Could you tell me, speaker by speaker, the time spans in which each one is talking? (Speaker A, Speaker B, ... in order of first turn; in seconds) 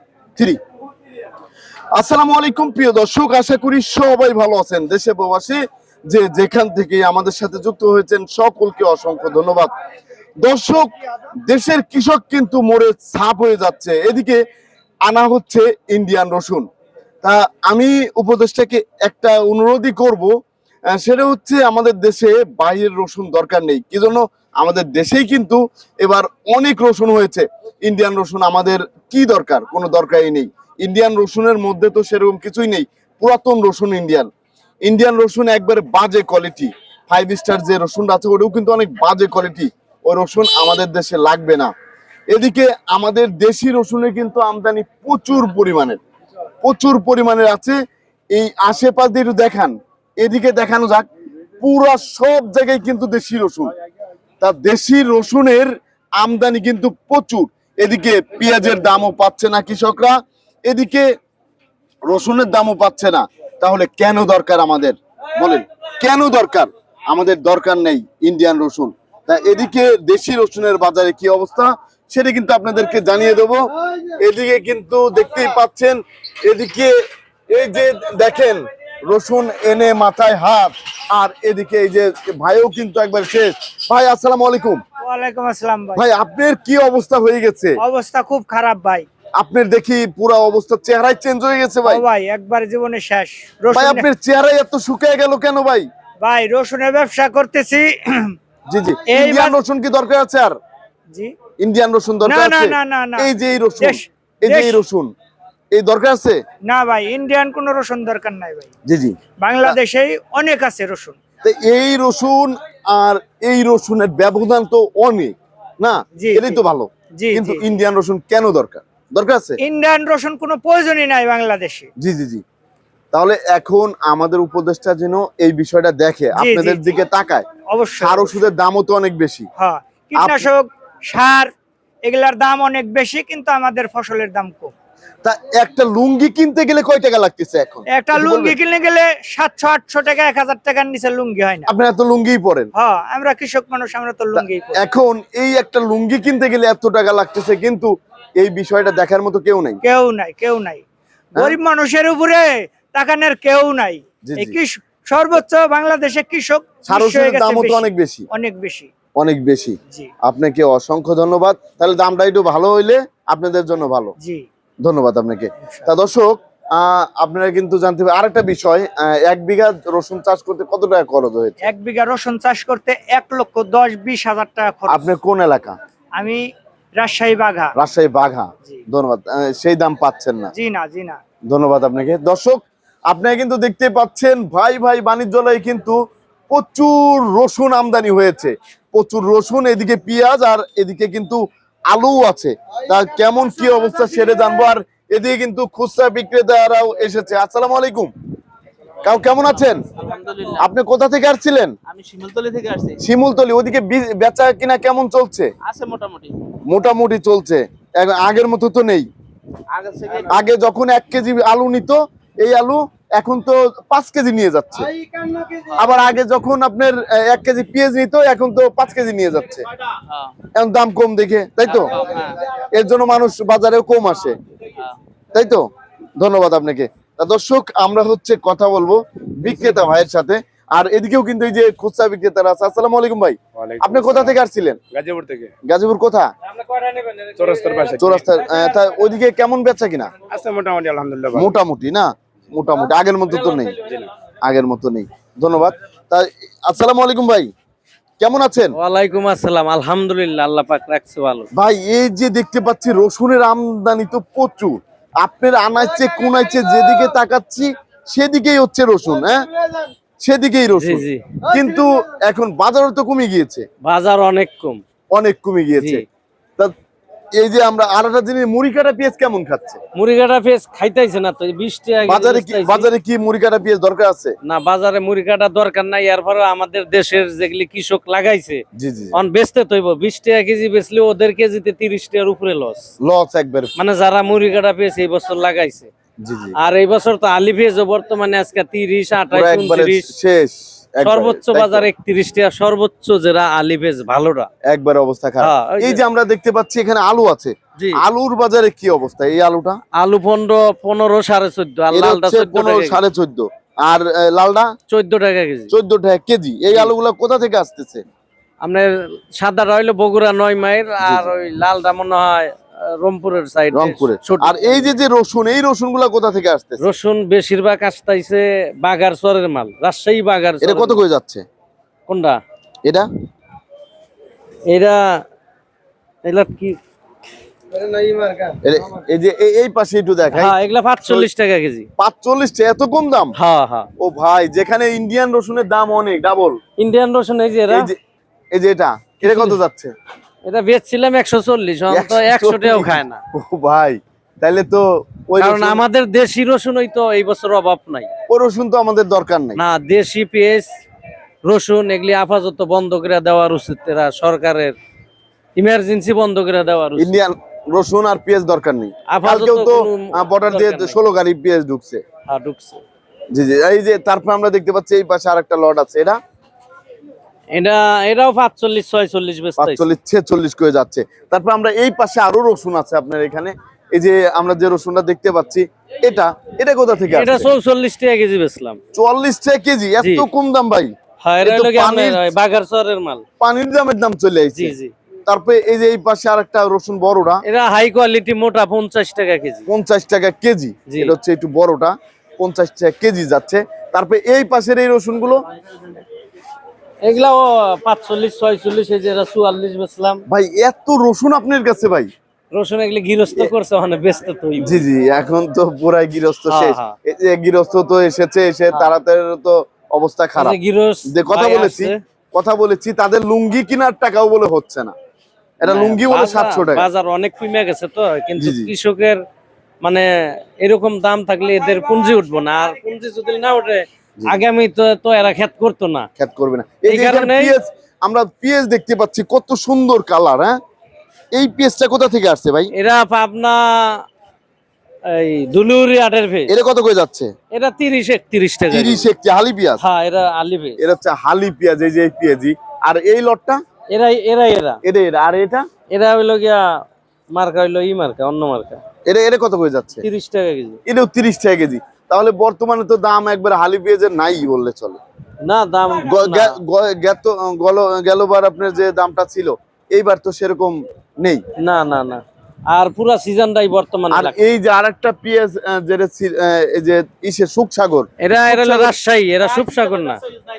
Speaker A: 1.9-9.7, 10.4-10.9, 11.5-14.4, 15.1-16.6, 17.2-20.3, 20.9-34.3, 34.8-41.7, 42.3-46.0, 46.6-47.8, 48.3-51.1, 51.6-53.7, 54.4-61.1, 62.1-76.9, 77.5-84.8, 86.0-87.8, 89.4-92.0, 93.7-95.9, 98.7-100.5, 101.6-105.1, 105.7-106.4, 108.9-109.8, 111.4-119.6, 122.0-122.4, 123.1-127.5, 128.0-129.5, 130.1-130.5, 135.2-138.6, 141.7-142.7, 144.3-149.8, 154.2-154.6, 156.9-158.2, 159.2-164.1, 164.8-171.6, 174.9-175.8, 177.8-180.5, 181.5-186.0, 186.5-198.1, 199.0-199.9, 200.6-201.7, 203.0-205.5, 206.7-209.1, 210.2-214.9, 215.8-219.6, 220.6-224.4, 225.3-225.7, 226.2-234.8, 235.7-236.3, 238.0-240.1, 241.3-243.8, 244.4-247.5, 248.2-248.8, 251.5-259.4, 260.2-263.6, 265.1-266.0, 267.4-269.8, 272.1-274.3, 278.8-279.2, 283.0-283.7, 286.2-286.5, 289.3-291.9, 294.7-299.8, 301.9-304.7, 305.7-308.0, 311.0-311.3, 313.7-316.8, 320.6-321.4, 328.6-331.3, 332.0-333.3, 334.0-336.6, 337.7-338.0, 338.5-339.9, 341.9-345.8, 348.3-349.6, 357.0-362.0, 363.3-366.2, 369.6-377.5, 378.9-380.9, 381.4-382.2, 383.4-384.7, 385.3-387.4, 389.7-395.4, 400.3-402.1, 404.6-410.6, 411.1-414.9, 415.6-416.9, 418.4-418.7, 426.2-430.5, 431.4-432.7, 436.5-437.3, 438.7-439.8, 440.8-443.6, 444.8-445.6, 449.1-450.0, 450.9-455.0, 456.0-461.4, 464.1-468.9
Speaker B: 85.0-86.0, 87.8-89.1, 91.8-94.1, 96.2-98.3, 99.1-99.6, 102.2-104.8, 106.7-108.7, 109.4-111.2, 116.2-116.6, 117.2-117.6, 119.6-121.9, 126.3-126.8, 127.7-128.5, 129.6-131.5, 132.1-134.7, 137.9-141.7, 142.7-144.8, 149.8-150.8, 151.3-158.9, 171.7-175.1, 177.0-177.7, 180.5-181.2
Speaker C: 200.0-200.6, 209.8-210.3, 221.6-222.4, 236.5-238.7, 243.3-243.9, 248.7-251.5, 260.8-261.2, 263.8-264.8, 265.8-266.0, 269.9-272.9, 274.4-278.6, 279.1-282.8, 283.8-285.9, 286.6-290.1, 291.0-294.5, 295.4-296.0, 297.8-298.0, 300.0-303.0, 304.9-305.7, 308.6-314.9, 316.8-321.0, 322.1-322.4, 324.7-325.2, 326.2-326.8, 330.3-331.9, 333.4-333.9, 336.8-337.9, 339.2-339.6, 340.4-343.2, 345.4-348.1, 349.6-350.7, 351.4-354.8, 355.6-357.1, 359.1-361.0, 362.3-362.8, 367.5-369.9, 377.1-378.8, 380.0-380.2, 381.2-383.2, 384.6-384.9, 387.4-389.7, 390.9-391.1, 397.0-400.2, 402.5-404.8, 406.5-406.9, 410.4-412.0, 415.6-419.2, 420.6-426.1, 426.9-427.5, 432.7-434.0, 435.1-436.5, 437.5-439.1, 439.8-440.8, 443.9-444.8, 445.9-446.6, 447.4-448.8, 450.0-450.8, 455.4-456.5, 461.6-464.3, 468.2-470.2
Speaker D: 200.1-200.4, 201.9-203.0, 205.7-206.3, 209.7-210.2
Speaker E: 233.6-234.4, 234.9-235.5, 237.4-238.2, 240.3-241.5, 243.8-244.1, 327.8-328.6